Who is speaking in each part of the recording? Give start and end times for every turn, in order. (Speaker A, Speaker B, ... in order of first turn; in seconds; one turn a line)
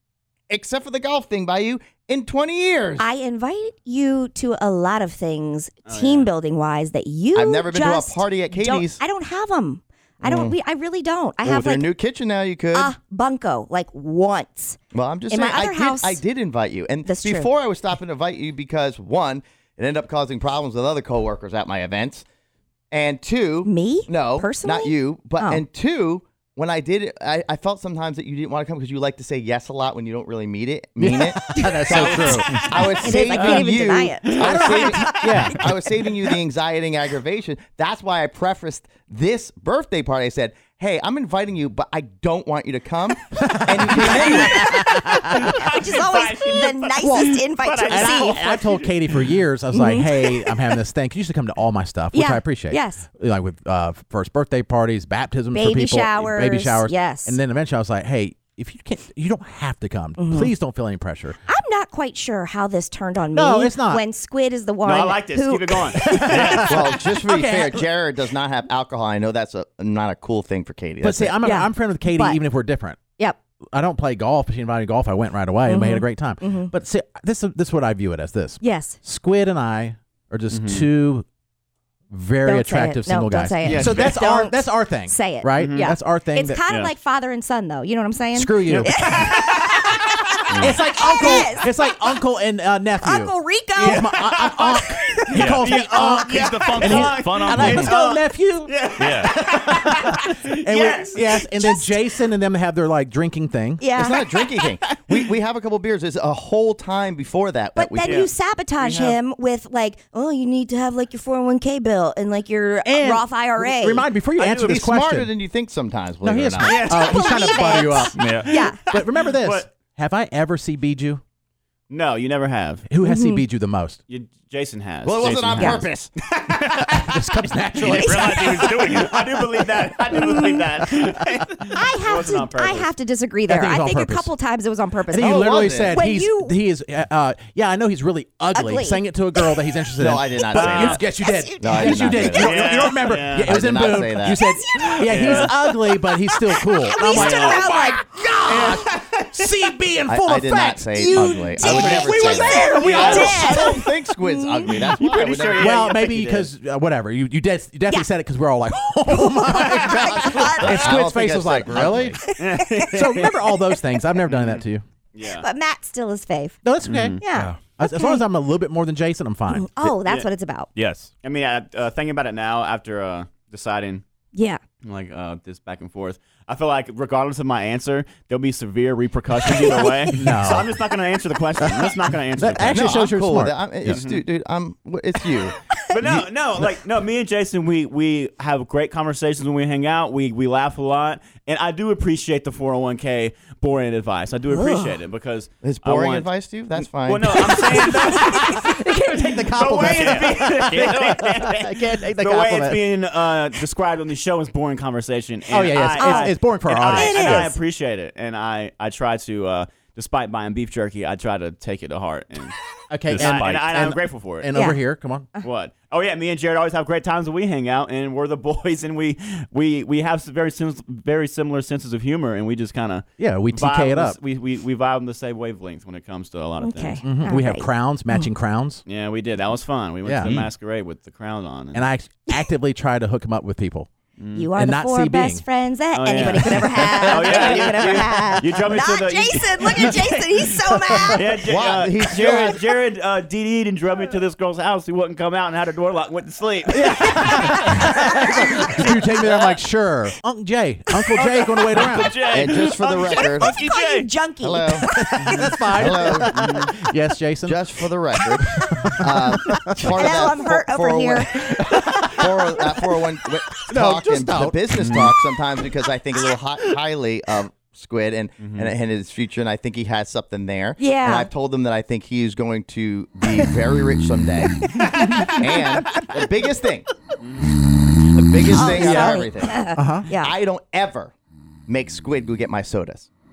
Speaker A: 0.5-3.1
Speaker B: 3.0-11.9
Speaker C: 5.8-6.3
Speaker A: 7.3-9.0
Speaker A: 10.2-10.6
Speaker A: 11.4-12.9
Speaker B: 12.7-14.8
Speaker A: 14.9-22.2
Speaker B: 15.3-16.2
Speaker B: 17.0-17.5
Speaker A: 22.9-44.8
Speaker B: 23.6-25.6
Speaker D: 31.0-33.7
Speaker B: 31.4-35.5
Speaker D: 34.4-35.6
Speaker D: 43.4-45.5
Speaker C: 44.0-49.3
Speaker B: 45.3-48.5
Speaker D: 47.0-61.4
Speaker B: 49.7-50.3
Speaker B: 52.1-53.0
Speaker B: 55.5-57.4
Speaker B: 60.2-60.5
Speaker B: 61.5-66.7
Speaker D: 63.3-64.0
Speaker C: 64.8-66.9
Speaker D: 66.0-67.8
Speaker A: 66.4-71.3
Speaker D: 71.0-73.0
Speaker B: 71.4-72.4
Speaker D: 73.7-81.2
Speaker B: 75.7-76.7
Speaker B: 78.6-79.0
Speaker C: 80.5-80.9
Speaker D: 82.1-86.6
Speaker B: 82.4-92.0
Speaker C: 83.6-84.2
Speaker C: 85.6-85.9
Speaker C: 86.7-86.9
Speaker D: 88.3-89.1
Speaker C: 90.5-90.8
Speaker D: 90.6-103.9
Speaker B: 93.0-97.8
Speaker E: 95.3-97.9
Speaker C: 95.4-101.4
Speaker E: 99.0-99.3
Speaker B: 101.3-102.0
Speaker B: 103.8-104.2
Speaker A: 104.0-108.3
Speaker B: 107.7-114.1
Speaker C: 108.0-109.2
Speaker D: 112.8-115.3
Speaker C: 114.3-114.8
Speaker A: 114.6-116.9
Speaker D: 116.2-121.2
Speaker C: 116.6-117.8
Speaker B: 116.9-118.8
Speaker E: 118.2-118.5
Speaker C: 118.4-119.7
Speaker C: 121.9-122.8
Speaker D: 122.9-124.0
Speaker B: 123.0-123.4
Speaker C: 124.1-132.9
Speaker A: 125.0-126.2
Speaker B: 125.6-125.8
Speaker D: 126.9-128.7
Speaker B: 127.9-129.0
Speaker E: 127.9-128.3
Speaker B: 130.1-130.6
Speaker B: 131.7-136.5
Speaker D: 133.5-134.3
Speaker D: 135.1-153.9
Speaker A: 135.2-136.0
Speaker B: 138.5-139.5
Speaker A: 140.0-141.0
Speaker C: 140.5-141.0
Speaker B: 141.2-142.9
Speaker A: 141.6-144.4
Speaker C: 142.2-143.6
Speaker B: 144.7-145.5
Speaker C: 145.0-145.5
Speaker B: 146.7-148.0
Speaker C: 147.1-147.7
Speaker C: 148.5-149.3
Speaker A: 150.1-156.1
Speaker B: 150.9-154.8
Speaker C: 152.8-153.7
Speaker D: 154.6-155.0
Speaker C: 155.0-156.5
Speaker D: 155.6-162.2
Speaker B: 159.1-160.9
Speaker A: 159.8-162.2
Speaker B: 162.2-163.3
Speaker C: 162.4-163.3
Speaker D: 162.7-164.8
Speaker C: 164.3-165.5
Speaker B: 165.3-166.6
Speaker D: 166.6-169.9
Speaker C: 166.8-167.2
Speaker B: 167.2-168.2
Speaker E: 167.3-167.6
Speaker B: 169.5-170.7
Speaker E: 170.7-171.1
Speaker C: 171.2-174.0
Speaker B: 174.3-174.6
Speaker C: 174.8-182.9
Speaker D: 180.2-180.7
Speaker D: 181.6-183.6
Speaker A: 182.7-186.2
Speaker C: 183.8-184.2
Speaker C: 185.9-196.3
Speaker B: 194.5-194.9
Speaker A: 195.6-197.5
Speaker C: 197.0-198.7
Speaker D: 197.3-202.8
Speaker B: 198.1-199.0
Speaker C: 199.5-212.6
Speaker E: 200.7-201.0
Speaker D: 205.5-207.6
Speaker B: 206.0-206.3
Speaker B: 206.9-207.6
Speaker D: 212.9-215.3
Speaker E: 213.1-213.5
Speaker C: 213.1-214.7
Speaker B: 214.5-214.8
Speaker C: 215.4-227.1
Speaker D: 223.2-224.2
Speaker B: 226.6-228.3
Speaker D: 227.0-228.8
Speaker C: 228.8-231.8
Speaker D: 230.0-230.4
Speaker E: 230.2-230.5
Speaker D: 231.7-233.9
Speaker C: 234.2-234.5
Speaker B: 234.3-241.3
Speaker D: 234.6-235.4
Speaker C: 235.9-240.2
Speaker D: 236.8-237.6
Speaker C: 241.1-247.8
Speaker A: 241.4-242.6
Speaker D: 246.7-252.2
Speaker C: 249.2-249.6
Speaker C: 251.1-254.1
Speaker A: 252.2-253.6
Speaker B: 253.3-255.7
Speaker A: 254.4-254.9
Speaker D: 254.9-257.6
Speaker A: 255.8-256.7
Speaker C: 256.1-256.7
Speaker A: 257.4-276.9
Speaker D: 258.4-260.0
Speaker B: 259.9-261.5
Speaker D: 261.7-262.6
Speaker D: 263.7-265.1
Speaker C: 264.8-265.1
Speaker C: 268.4-268.7
Speaker B: 270.8-271.3
Speaker B: 274.7-275.2
Speaker D: 274.8-276.0
Speaker C: 277.2-277.6
Speaker A: 278.1-279.6
Speaker D: 278.4-280.1
Speaker B: 278.5-280.3
Speaker A: 280.1-281.1
Speaker A: 281.7-283.1